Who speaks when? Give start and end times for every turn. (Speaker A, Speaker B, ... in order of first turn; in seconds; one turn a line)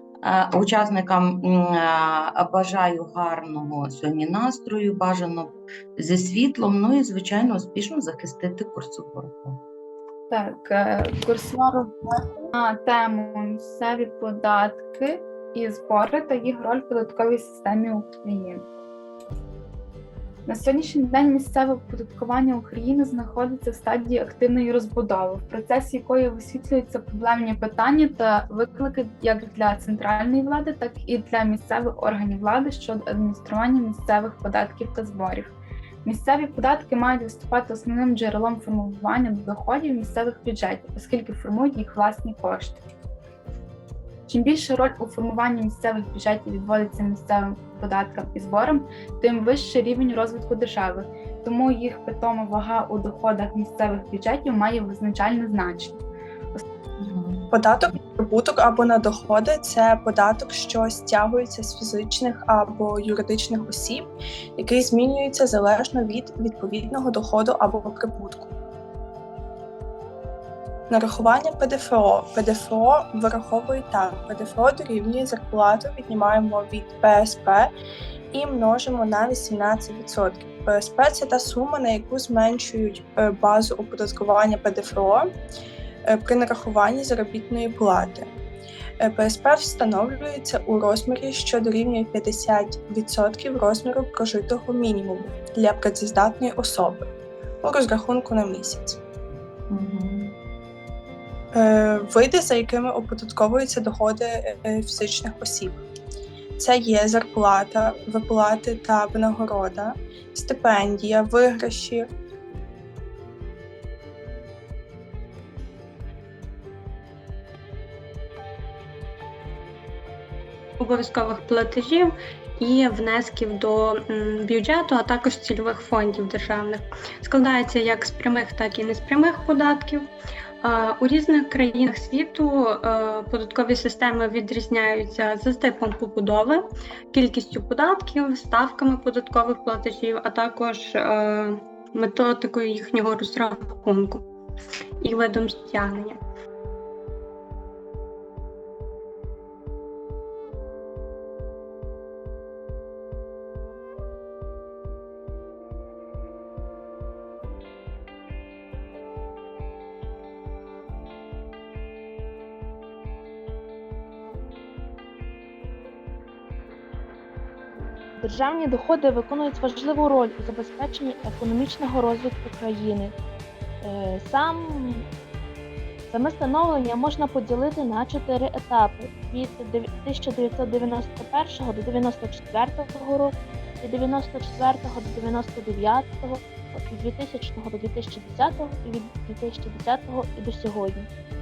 Speaker A: 0.2-9.6
Speaker B: 10.3-18.6
Speaker B: 20.4-42.8
Speaker B: 44.3-56.0
Speaker A: 57.0-57.5
Speaker C: 57.5-68.5
Speaker C: 70.9-77.7
Speaker C: 78.3-85.3
Speaker C: 86.0-88.3
Speaker C: 89.0-97.0
Speaker C: 97.6-99.0
Speaker A: 99.7-100.3
Speaker C: 101.5-105.8
Speaker C: 106.6-112.1
Speaker D: 120.8-130.1
Speaker D: 130.6-144.2
Speaker D: 145.0-146.2
Speaker E: 168.2-173.1
Speaker E: 173.8-175.0
Speaker E: 176.1-191.1